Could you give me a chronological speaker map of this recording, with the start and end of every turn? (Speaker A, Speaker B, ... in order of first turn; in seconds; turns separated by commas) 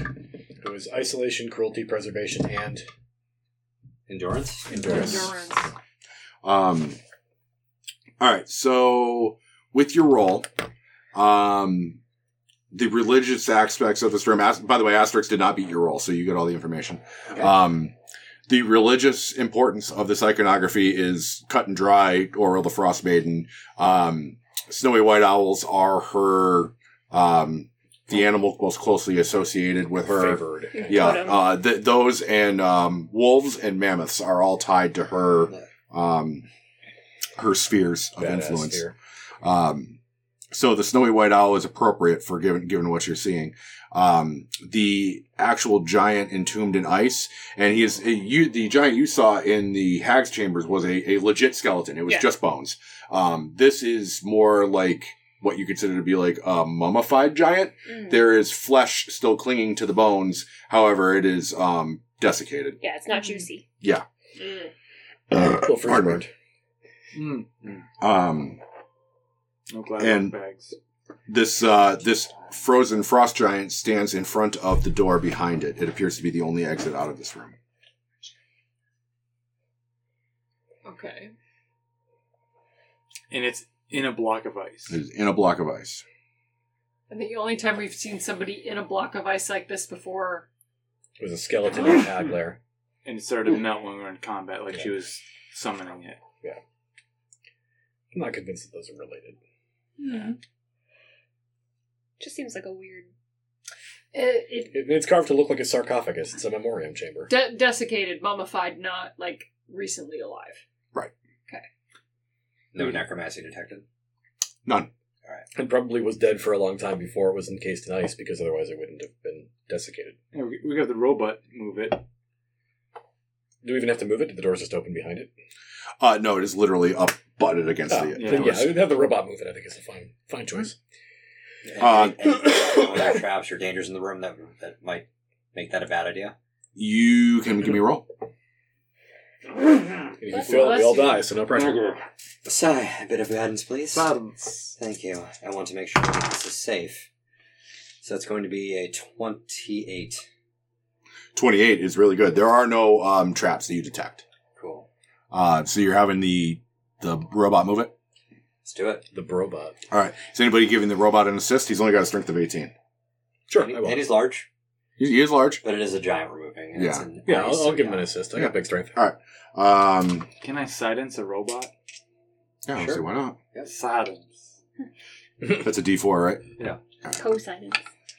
Speaker A: 0.6-2.8, Speaker B: 4.1-5.1, Speaker C: 4.7-5.7, Speaker D: 4.8-5.1, Speaker D: 6.4-7.0, Speaker D: 8.2-10.5, Speaker D: 11.1-12.0, Speaker D: 12.7-17.9, Speaker D: 18.5-36.5, Speaker A: 30.0-31.2, Speaker E: 30.7-31.5, Speaker D: 37.4-38.9, Speaker A: 38.2-39.0, Speaker D: 39.4-40.0, Speaker D: 40.5-62.8, Speaker E: 57.9-58.2, Speaker E: 62.8-63.6, Speaker C: 64.4-64.7, Speaker D: 65.3-66.2, Speaker A: 65.4-66.3, Speaker F: 67.1-67.8, Speaker D: 68.0-68.6, Speaker F: 69.7-70.8, Speaker D: 70.0-70.3, Speaker D: 71.3-77.5, Speaker C: 80.8-81.3, Speaker F: 83.3-85.0, Speaker D: 84.9-86.0, Speaker C: 87.1-90.5, Speaker A: 91.2-92.6, Speaker F: 93.0-96.2, Speaker A: 98.1-99.4, Speaker C: 100.0-100.4, Speaker E: 102.2-103.1, Speaker C: 104.1-104.7, Speaker A: 104.7-107.3, Speaker C: 107.3-110.6, Speaker B: 112.7-113.8, Speaker A: 115.5-120.2, Speaker F: 120.3-122.0, Speaker A: 123.6-125.3, Speaker D: 126.0-128.7, Speaker A: 127.9-130.8, Speaker F: 128.1-128.6, Speaker B: 131.7-136.3, Speaker D: 131.8-132.2, Speaker D: 136.8-138.1, Speaker A: 140.2-141.9, Speaker C: 140.3-141.2, Speaker B: 142.4-144.2, Speaker F: 143.9-144.7, Speaker B: 144.7-147.1, Speaker B: 148.0-150.2, Speaker D: 151.3-154.2, Speaker B: 154.6-154.9, Speaker D: 155.3-157.9, Speaker B: 158.6-159.0, Speaker A: 159.1-159.8, Speaker D: 159.9-162.7, Speaker A: 163.5-164.1, Speaker B: 163.5-164.5, Speaker D: 165.0-165.6, Speaker B: 165.6-168.1, Speaker D: 166.7-167.1, Speaker A: 167.2-168.9, Speaker D: 168.3-170.3, Speaker F: 170.4-171.7, Speaker D: 172.7-173.4, Speaker B: 172.7-173.7, Speaker F: 173.6-174.6, Speaker D: 175.5-176.4, Speaker E: 177.2-177.8